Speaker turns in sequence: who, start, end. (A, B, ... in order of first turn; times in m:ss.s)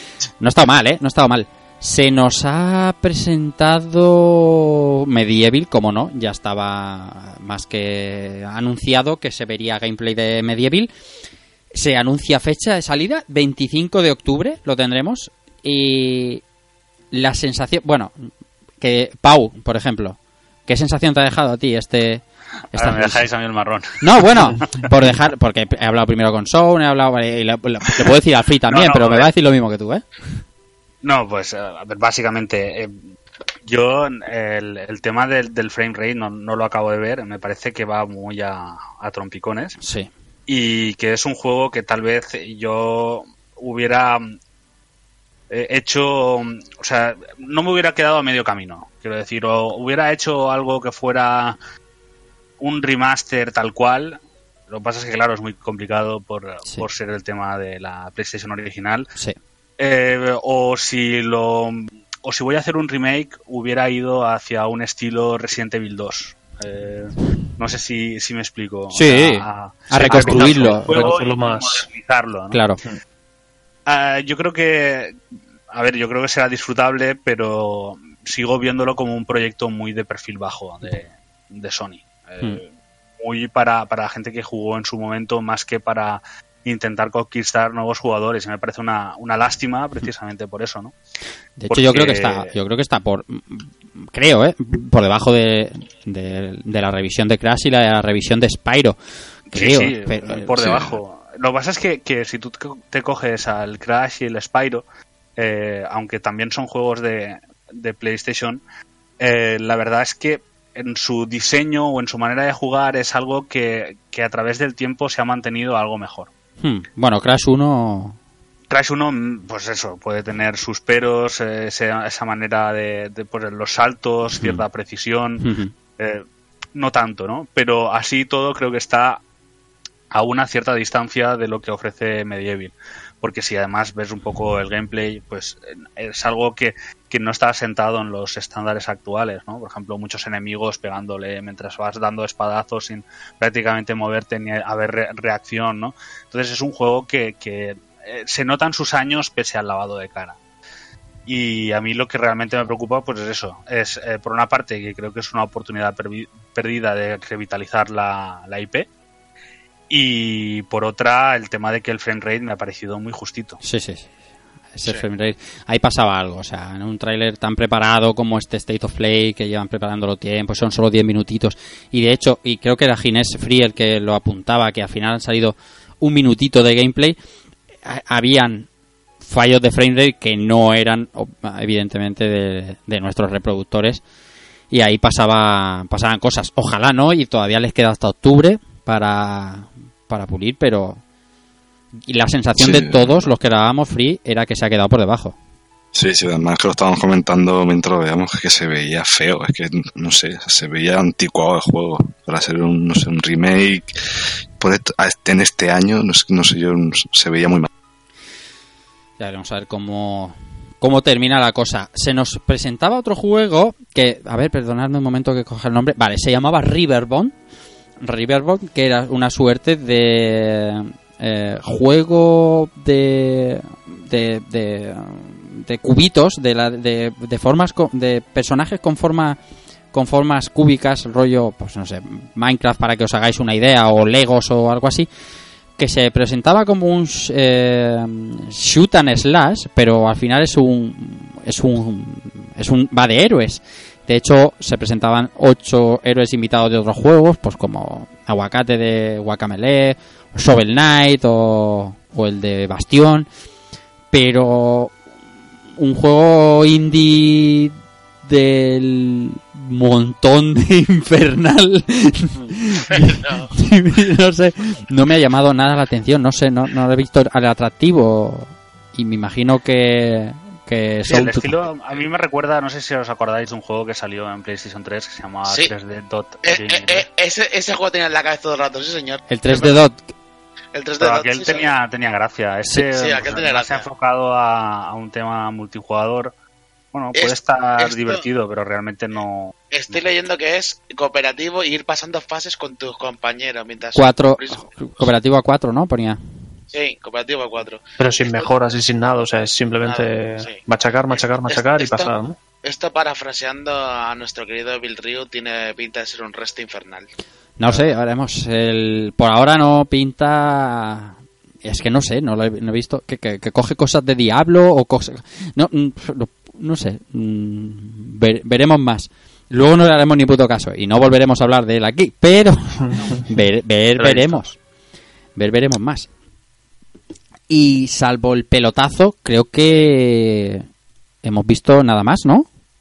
0:00.4-0:10.9 A
0:11.7-0:16.4 A
0:17.1-0:18.3 A
0:18.8-0:23.2 A
0:22.7-0:24.9 B
0:24.0-0:30.0 A
0:28.7-0:29.3 B
0:31.0-0:33.0 B
0:33.6-0:39.8 B
0:39.8-0:40.1 A
0:40.5-0:44.4 B
0:45.5-0:51.6 B
0:52.6-0:59.1 B
0:59.8-1:12.6 B
1:08.9-1:11.0 A
1:10.0-1:11.8 C
1:12.5-1:12.8 A
1:13.9-1:15.2 B
1:15.7-1:30.9 B
1:31.6-1:39.0 A
1:31.7-1:32.5 B
1:39.5-1:44.8 B
1:39.5-1:40.9 A
1:45.4-1:48.6 B
1:49.2-1:56.3 B
1:56.6-1:58.2 A
1:58.7-2:09.2 B
2:04.3-2:04.6 A
2:05.4-2:05.7 A
2:10.1-2:30.4 B
2:31.2-2:38.9 B
2:39.9-2:43.6 B
2:43.6-2:44.1 A
2:44.7-2:57.2 A
2:57.8-2:58.7 A
2:59.2-3:04.0 A
3:04.7-3:11.0 A
3:12.1-3:15.4 A
3:12.6-3:13.3 D
3:15.9-3:24.0 D
3:24.6-3:27.7 D
3:29.2-3:37.3 A
3:38.0-3:49.4 A
3:49.9-3:55.1 A
3:55.8-4:13.3 A
4:14.1-4:14.9 A
4:15.8-4:31.5 A
4:22.9-4:23.5 E
4:31.1-4:37.0 B
4:36.4-4:39.8 E
4:39.3-4:40.0 A
4:40.7-4:41.7 E
4:41.0-4:46.3 B
4:42.9-4:43.8 E
4:46.9-4:50.0 B
4:47.1-4:48.2 E
4:49.7-4:54.7 E
4:54.0-4:56.2 A
4:56.7-4:58.5 E
4:58.0-5:02.4 C
4:59.8-5:02.1 E
5:02.6-5:07.1 E
5:07.6-5:24.5 A
5:22.9-5:23.2 C
5:24.0-5:24.5 C
5:25.4-5:26.1 A
5:27.5-5:30.6 A
5:31.2-5:32.4 A